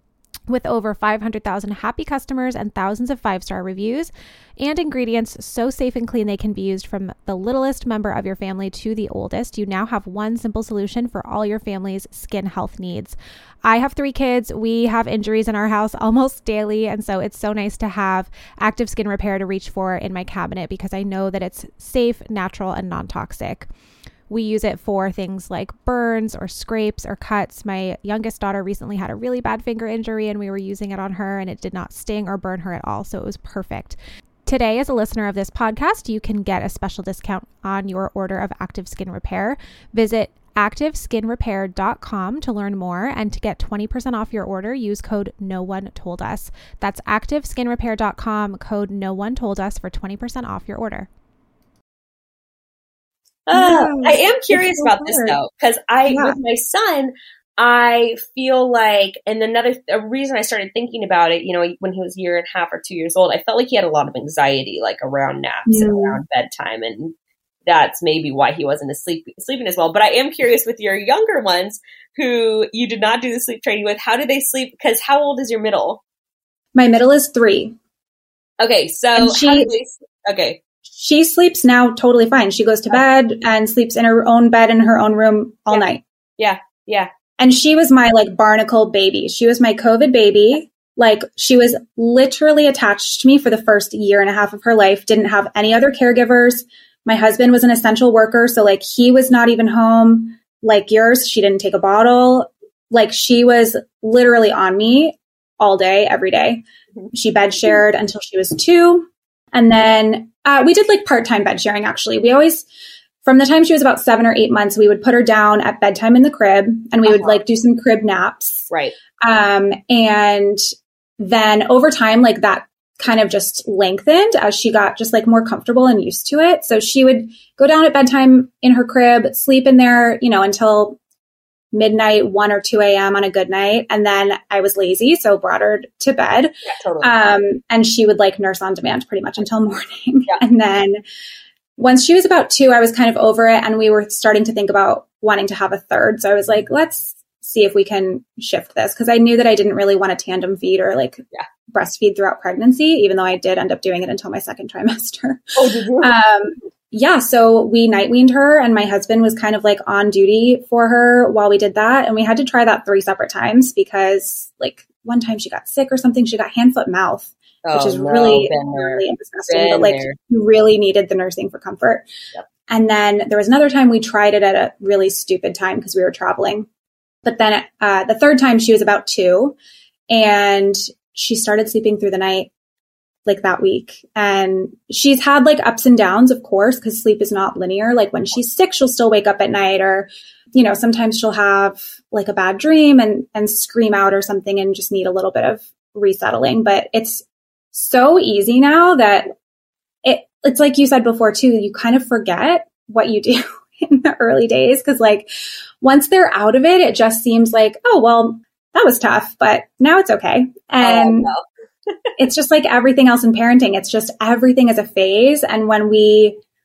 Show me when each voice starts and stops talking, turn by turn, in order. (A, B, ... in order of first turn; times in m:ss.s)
0:00.5-0:23.7 A
0:24.3-0:51.1 A
0:53.5-1:07.1 B
0:53.5-0:55.4 C
0:56.1-0:56.4 C
1:05.7-1:06.2 C
1:07.6-1:16.0 B
1:16.7-1:17.7 C
1:18.6-1:20.6 B
1:19.1-1:19.7 C
1:20.9-1:26.0 C
1:26.4-1:27.1 B
1:27.4-1:52.6 C
1:53.2-1:58.7 C
1:57.0-1:57.4 B
1:58.7-1:59.0 B
1:59.2-2:00.6 C
2:01.2-2:11.0 C
2:11.7-2:21.0 C
2:16.6-2:17.1 B
2:21.8-2:52.1 C
2:35.6-2:36.1 B
2:47.6-2:50.2 B
2:52.7-2:56.7 C
2:57.2-2:59.6 C
3:00.1-3:02.5 C
3:03.2-3:19.3 C
3:20.0-3:25.3 C
3:25.8-3:31.3 C
3:30.8-3:31.4 B
3:32.2-3:36.4 C